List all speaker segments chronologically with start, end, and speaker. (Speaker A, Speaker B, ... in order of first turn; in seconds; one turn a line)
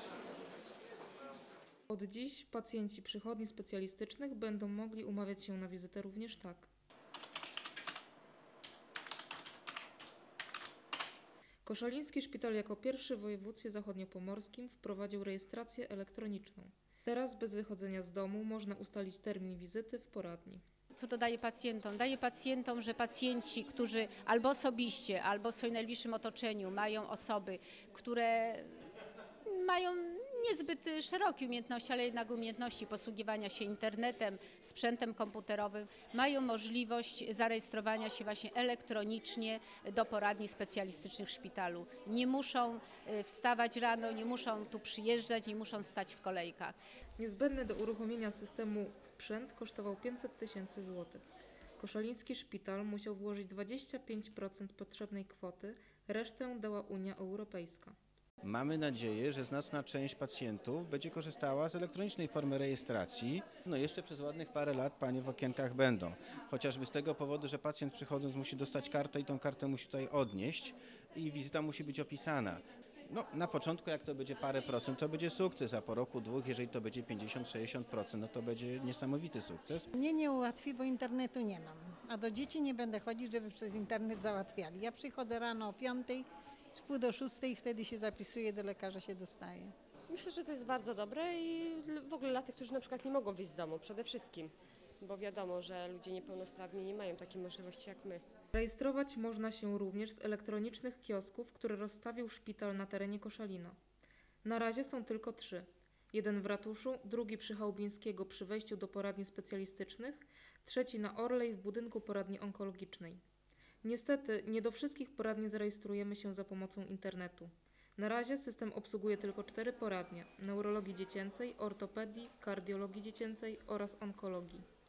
Speaker A: 1.9-6.7
Speaker A: 11.7-20.6
Speaker B: 21.0-28.9
Speaker B: 29.5-46.8
Speaker A: 47.2-51.2
Speaker A: 51.8-58.0
Speaker C: 58.4-79.9
Speaker D: 79.9-89.7
Speaker E: 90.1-98.2
Speaker A: 98.5-103.8
Speaker A: 104.4-113.2
Speaker A: 113.8-124.7